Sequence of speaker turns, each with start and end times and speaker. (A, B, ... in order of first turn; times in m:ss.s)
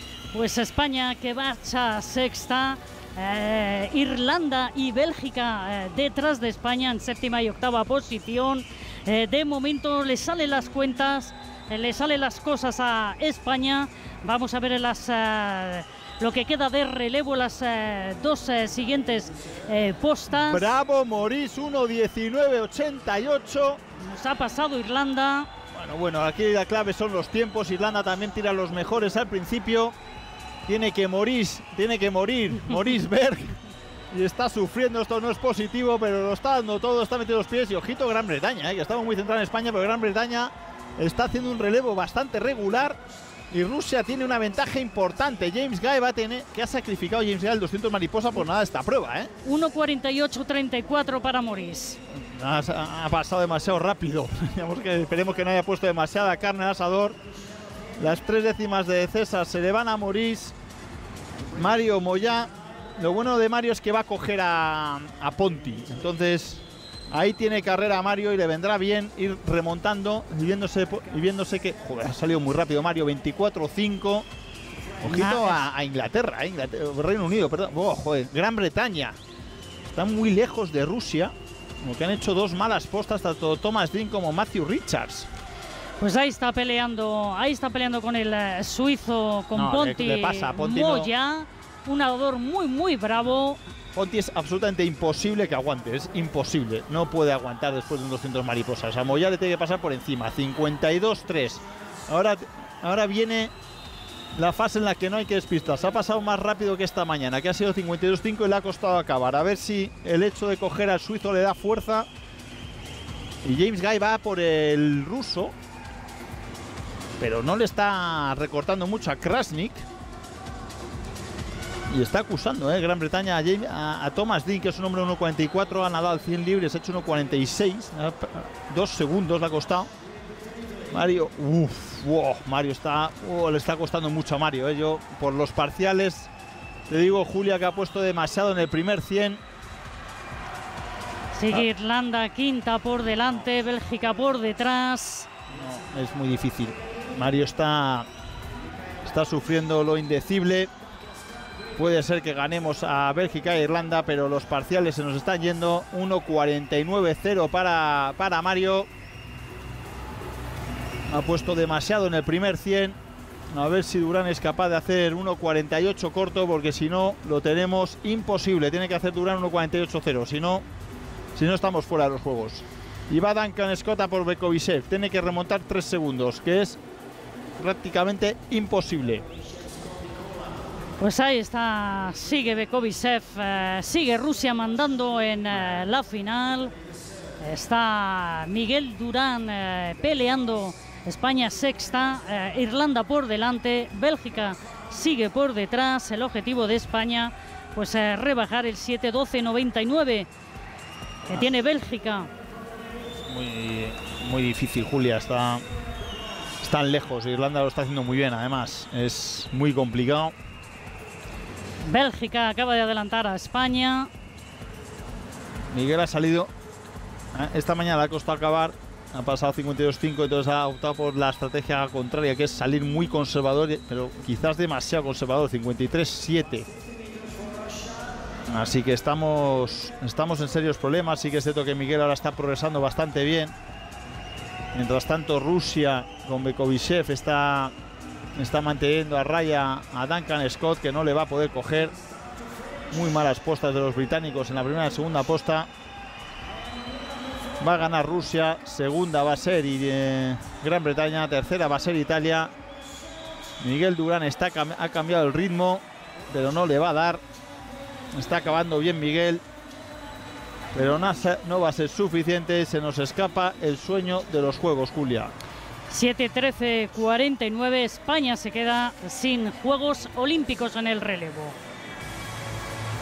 0:00.3-0:20.8 A
0:20.4-0:23.8 B
0:24.0-0:25.5 A
0:25.7-0:29.9 B
0:30.6-0:33.6 B
0:34.1-0:43.0 B
0:43.5-0:49.3 B
0:49.4-0:52.0 A
0:52.1-0:57.2 B
0:58.0-1:00.6 B
1:01.6-1:14.2 B
1:15.0-1:19.2 B
1:15.0-1:15.6 A
1:19.8-1:21.3 B
1:21.8-1:25.3 B
1:26.0-1:33.6 A
1:29.6-1:31.1 B
1:33.9-1:43.5 B
1:44.4-1:52.1 B
1:53.4-1:55.5 B
1:57.2-1:59.9 B
2:01.9-2:09.9 B
2:10.9-2:16.3 B
2:16.9-2:19.4 B
2:21.3-2:25.3 A
2:25.5-2:28.1 B
2:29.0-2:30.7 B
2:31.8-2:38.9 B
2:41.1-2:43.0 B
2:43.5-2:50.7 B
2:51.3-2:56.8 B
2:57.6-2:59.2 B
3:01.0-3:06.7 A
3:07.4-3:20.3 A
3:21.3-3:22.3 A
3:23.3-3:25.6 B
3:26.6-3:30.3 B
3:31.8-3:34.1 A
3:35.7-3:36.5 B
3:37.3-3:46.7 B
3:48.5-3:53.6 B
3:54.7-3:57.7 B
3:58.4-4:01.9 B
4:02.9-4:05.7 B
4:07.6-4:12.5 B
4:13.6-4:17.2 B
4:18.2-4:19.4 B
4:20.7-4:25.3 B
4:25.9-4:31.6 A